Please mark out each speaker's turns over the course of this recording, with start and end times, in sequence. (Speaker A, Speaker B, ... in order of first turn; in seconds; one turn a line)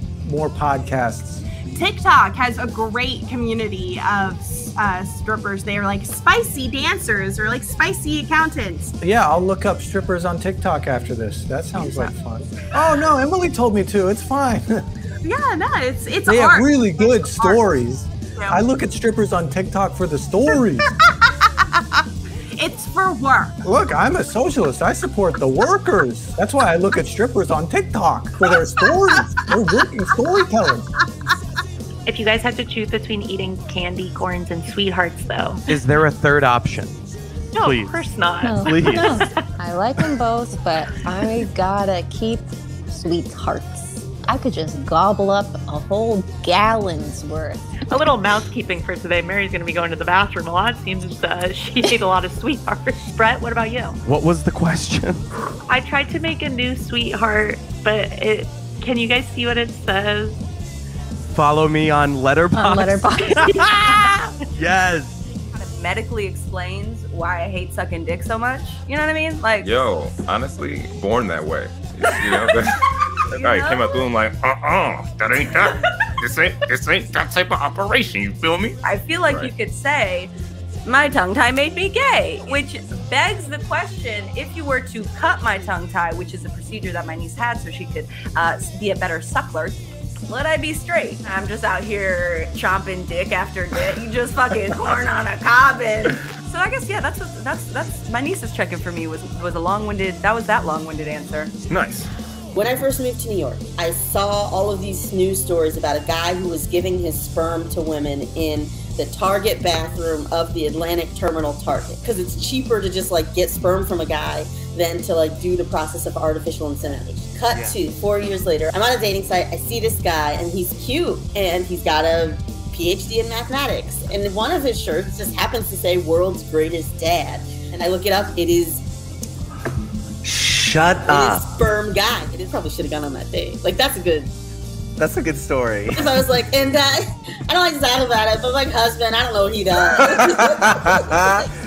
Speaker A: 0.2-1.4
Speaker B: 1.7-8.9
Speaker A: 9.0-14.9
Speaker B: 11.8-12.1
Speaker B: 15.2-17.6
Speaker A: 16.2-20.9
Speaker B: 22.6-23.5
Speaker A: 23.6-30.9
Speaker C: 32.1-35.6
Speaker D: 35.7-36.9
Speaker C: 37.5-39.4
Speaker D: 37.6-37.9
Speaker E: 38.4-47.6
Speaker C: 47.9-54.0
Speaker D: 54.0-55.2
Speaker C: 55.7-60.4
Speaker D: 61.3-63.7
Speaker E: 62.5-64.0
Speaker D: 64.6-65.1
Speaker F: 65.5-69.8
Speaker G: 69.6-72.8
Speaker F: 72.1-72.5
Speaker G: 73.3-79.5
Speaker F: 73.3-74.1
Speaker F: 78.8-80.3
Speaker F: 80.8-101.5
Speaker H: 102.5-128.8
Speaker I: 130.2-131.4
Speaker H: 131.1-134.3
Speaker I: 135.0-136.2
Speaker H: 135.9-141.4
Speaker I: 139.9-141.2